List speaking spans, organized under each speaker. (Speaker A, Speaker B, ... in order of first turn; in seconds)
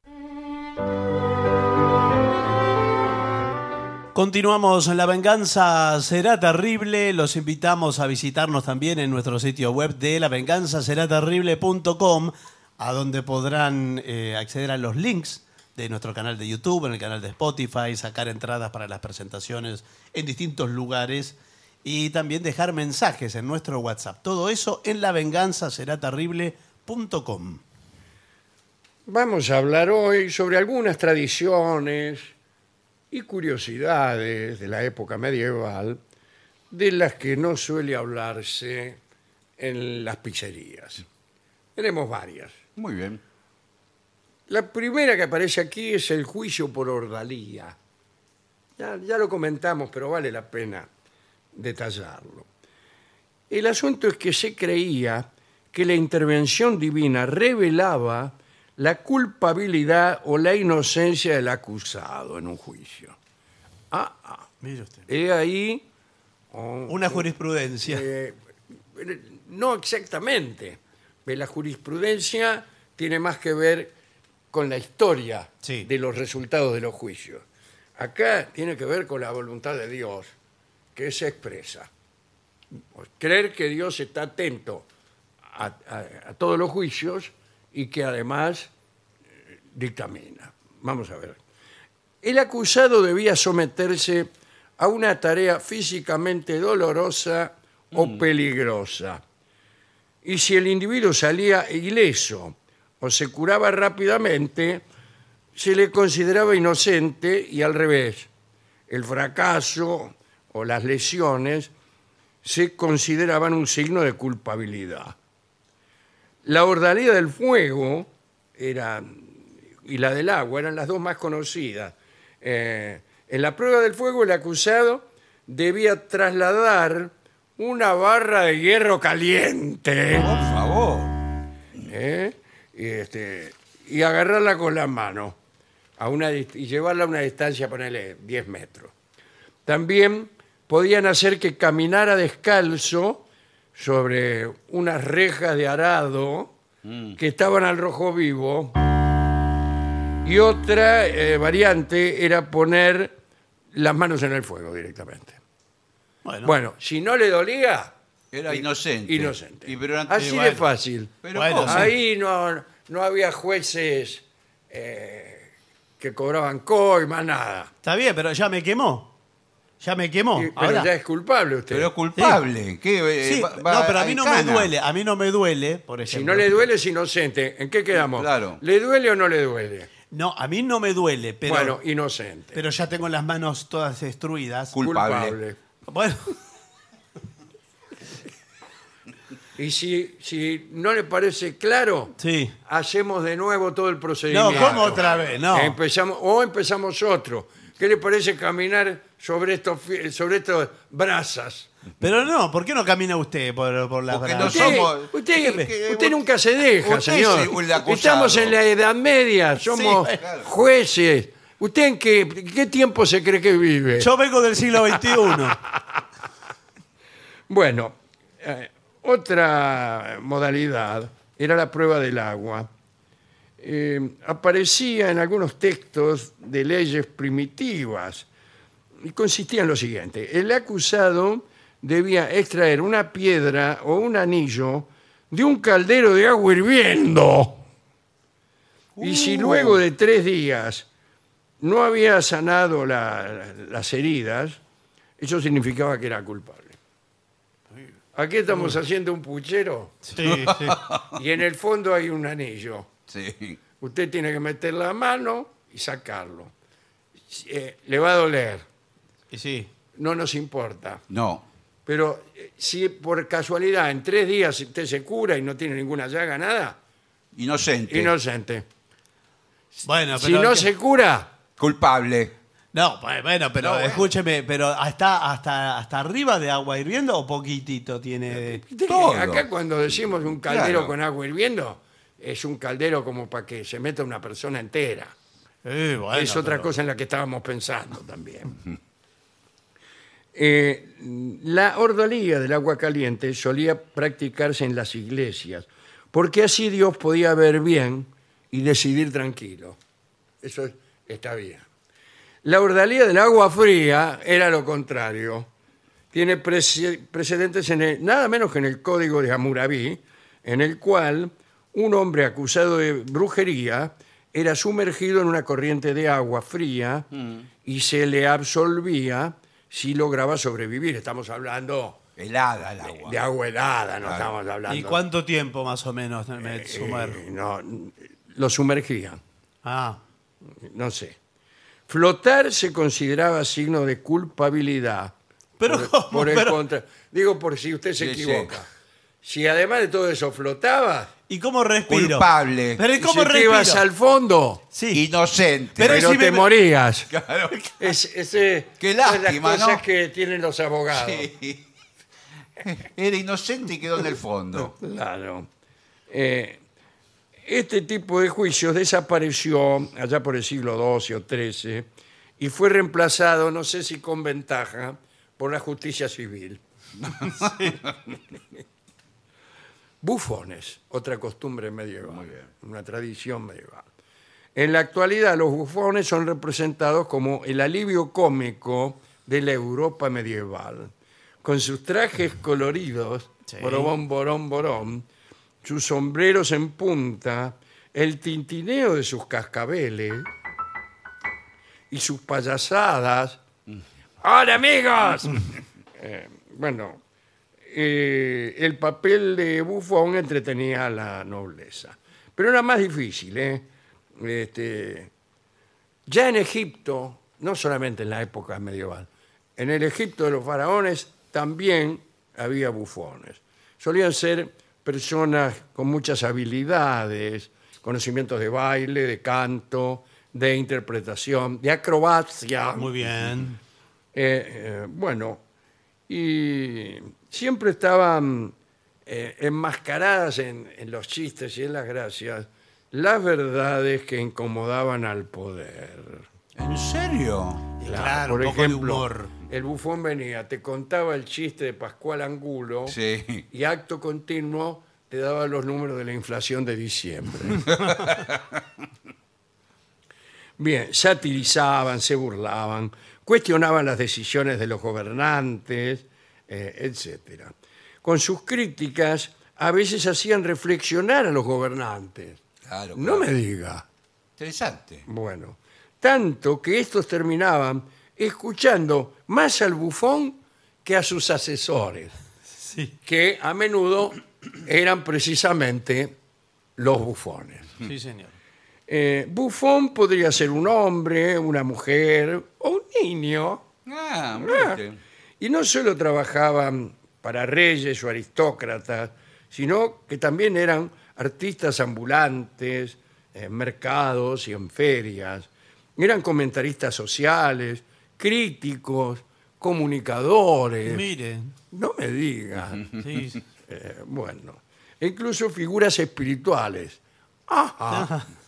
Speaker A: 4.2-27.6, 64.6-65.1, 66.9-68.1, 75.6-75.9, 156.2-156.5, 160.2-160.6, 161.3-161.9, 167.8-169.1, 169.8-170.9, 173.2-176.6, 180.1-181.8, 182.5-184.8, 185.9-186.4, 192.2-192.6, 194.3-195.8, 202.0-205.7, 209.7-210.2, 214.0-215.6, 248.5-248.8, 250.1-250.8, 259.3-259.7, 269.9-270.7, 272.7-278.6, 285.6-286.7, 324.7-327.2, 329.6-330.0, 335.6-336.6, 341.3-343.9, 344.7-345.0, 345.8-346.5, 383.5-383.9, 422.8-423.6, 437.8-439.3, 472.6-472.9, 477.8-478.3, 500.9-501.5, 503.0-503.4, 507.9-508.3
Speaker B: 29.1-32.3, 33.1-36.0, 36.7-39.0, 39.6-41.0, 41.8-42.6, 44.5-47.8, 48.8-50.9, 51.5-52.5, 53.5-63.2, 63.9-64.5, 65.1-65.9, 66.5-67.3, 67.8-68.4, 68.9-74.0, 74.5-77.5, 78.0-80.3, 81.0-81.9, 82.9-84.9, 85.5-88.7, 89.7-91.4, 92.2-99.2, 100.2-104.9, 105.5-108.3, 108.9-111.7, 112.4-115.2, 116.4-130.4, 131.8-135.4, 136.0-138.9, 139.7-146.6, 147.2-148.8, 150.2-153.2, 153.7-155.4, 156.4-158.0, 158.5-167.7, 170.4-171.9, 176.0-179.9, 181.4-182.6, 184.8-185.6, 189.6-201.7, 204.4-214.1, 214.9-216.0, 217.5-222.7, 223.6-228.3, 229.0-237.7, 239.0-240.9, 241.6-244.6, 245.2-246.8, 248.1-250.1, 251.1-252.9, 253.8-256.5, 257.3-258.7, 259.9-261.0, 261.9-266.8, 267.9-268.7, 270.1-271.4, 278.3-285.1, 286.1-288.6, 290.3-299.8, 300.4-301.7, 302.4-305.5, 306.1-317.1, 317.6-322.0, 322.9-325.0, 326.4-329.2, 330.5-331.2, 331.9-338.7, 339.2-341.1, 343.0-344.6, 345.8-347.1, 347.8-351.3, 354.5-355.5, 356.1-356.6, 357.4-366.6, 370.0-373.9, 374.6-385.1, 385.6-390.3, 391.9-393.4, 394.2-397.0, 397.6-405.1, 406.1-422.9, 424.1-425.4, 426.1-428.5, 429.1-436.3, 437.8-443.0, 443.5-447.8, 450.6-462.4, 463.0-463.9, 465.1-472.1, 473.1-476.2, 476.8-477.7, 478.9-483.7, 484.4-484.8, 485.4-501.1, 501.7-502.9, 503.7-508.1
Speaker C: 42.8-43.2, 97.9-98.2, 130.1-131.2, 146.8-147.2, 158.3-160.3, 161.2-161.9, 171.7-174.7, 178.0-178.6, 184.7-185.4, 194.5-195.4, 204.1-208.6, 210.1-210.5, 239.0-239.8, 250.2-251.2, 253.1-253.6, 261.1-261.4, 267.4-268.1, 271.6-272.4, 273.6-274.1, 278.9-279.5, 280.5-280.9, 317.1-317.5, 322.2-323.2, 324.0-324.3, 338.0-338.6, 341.9-342.8, 344.9-346.1, 347.1-347.8, 348.8-349.8, 350.9-351.6, 352.6-354.7, 367.0-367.9, 372.1-372.5, 436.6-437.7, 442.9-443.4, 447.7-448.4, 462.7-463.3, 464.4-465.1, 483.9-485.0